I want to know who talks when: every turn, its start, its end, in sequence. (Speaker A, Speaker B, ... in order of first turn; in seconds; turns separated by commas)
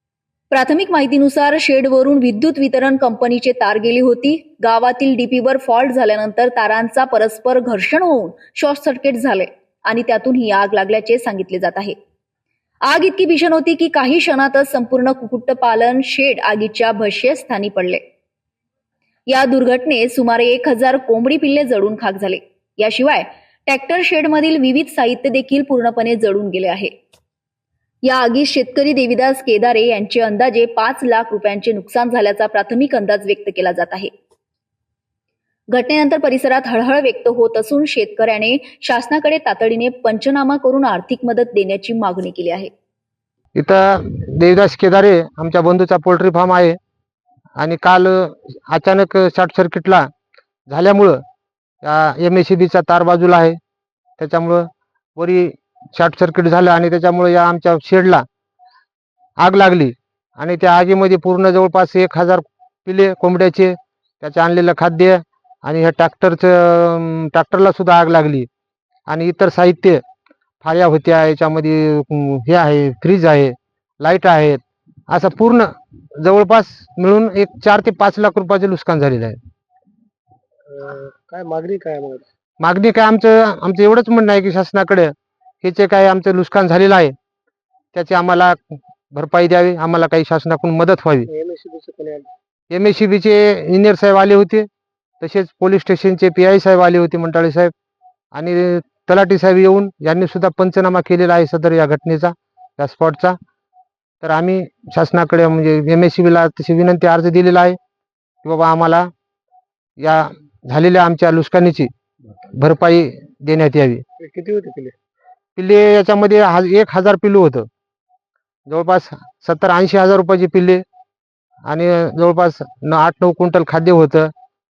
Speaker A: 0.5-11.9, Speaker A: 12.9-18.0, Speaker A: 19.3-26.9, Speaker A: 28.0-34.1, Speaker A: 35.7-42.7, Speaker B: 43.5-46.8, Speaker B: 47.6-50.1, Speaker B: 50.7-51.2, Speaker B: 51.8-53.6, Speaker B: 54.2-58.2, Speaker B: 59.4-68.5, Speaker B: 69.1-70.0, Speaker B: 70.6-79.4, Speaker C: 80.7-82.2, Speaker B: 82.6-85.1, Speaker B: 85.6-87.1, Speaker B: 87.9-91.3, Speaker C: 91.3-92.3, Speaker B: 92.7-94.7, Speaker B: 95.2-97.7, Speaker B: 98.3-103.4, Speaker B: 104.2-107.8, Speaker B: 108.4-109.1, Speaker B: 110.0-111.9, Speaker B: 112.6-114.0, Speaker C: 114.2-114.9, Speaker B: 115.6-117.7, Speaker B: 118.7-120.8, Speaker B: 121.7-124.3